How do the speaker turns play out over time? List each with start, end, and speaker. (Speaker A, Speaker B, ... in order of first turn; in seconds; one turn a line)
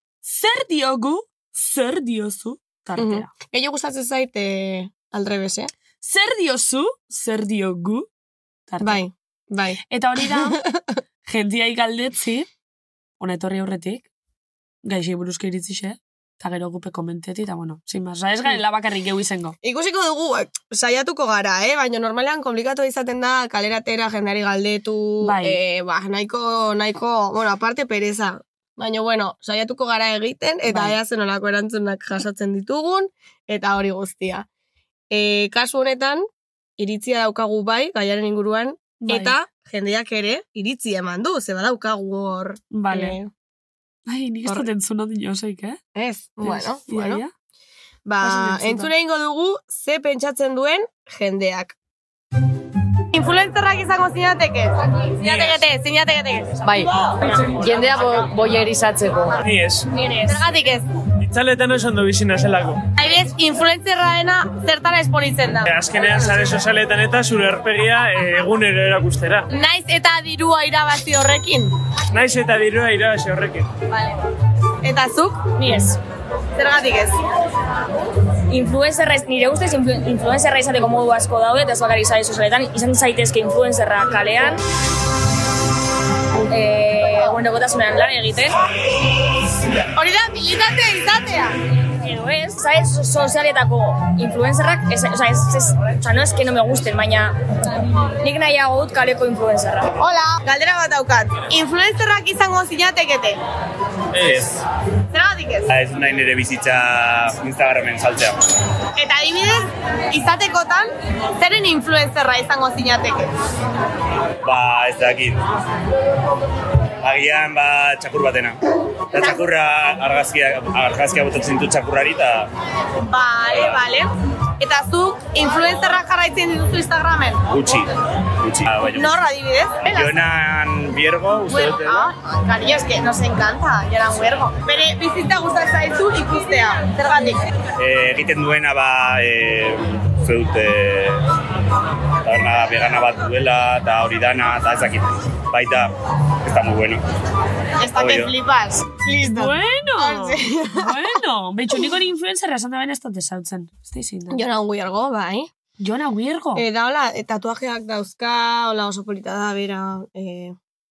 Speaker A: 0.2-3.3
Speaker B: 3.0-5.7
Speaker A: 6.0-8.1
Speaker A: 8.7-9.0
Speaker B: 8.8-11.0
Speaker A: 9.9-10.6
Speaker A: 11.3-12.5
Speaker A: 13.2-14.1
Speaker A: 14.8-19.6
Speaker B: 19.6-34.5
Speaker A: 25.2-25.6
Speaker A: 30.7-31.0
Speaker B: 35.1-36.2
Speaker B: 36.8-43.3
Speaker A: 39.0-39.4
Speaker A: 42.7-43.2
Speaker A: 44.1-45.8
Speaker B: 46.0-47.2
Speaker A: 46.4-47.3
Speaker B: 48.0-51.8
Speaker A: 48.2-48.9
Speaker B: 53.1-56.6
Speaker A: 55.2-55.6
Speaker C: 56.6-56.9
Speaker C: 57.6-59.9
Speaker D: 60.0-60.3
Speaker B: 60.2-60.9
Speaker C: 61.3-62.8
Speaker B: 63.0-65.7
Speaker C: 65.7-69.5
Speaker B: 69.5-71.7
Speaker C: 72.1-73.7
Speaker B: 73.9-74.2
Speaker B: 74.8-75.4
Speaker D: 75.6-76.0
Speaker B: 76.6-77.2
Speaker D: 78.5-84.6
Speaker D: 86.5-88.5
Speaker B: 90.0-91.6
Speaker D: 92.0-97.3
Speaker D: 98.2-100.0
Speaker B: 100.0-103.4
Speaker E: 104.1-104.6
Speaker B: 105.1-105.7
Speaker E: 105.7-108.4
Speaker B: 109.0-113.3
Speaker E: 114.4-115.4
Speaker E: 117.0-118.6
Speaker E: 119.1-122.5
Speaker B: 123.0-124.1
Speaker B: 124.6-127.4
Speaker E: 127.5-127.9
Speaker E: 128.4-129.2
Speaker B: 128.9-130.1
Speaker E: 129.9-132.1
Speaker B: 131.5-137.4
Speaker E: 137.8-141.2
Speaker E: 142.2-145.9
Speaker E: 146.4-147.0
Speaker B: 147.8-151.0
Speaker E: 148.0-148.3
Speaker A: 149.2-154.4
Speaker B: 154.3-155.5
Speaker A: 155.8-156.6
Speaker B: 156.6-160.6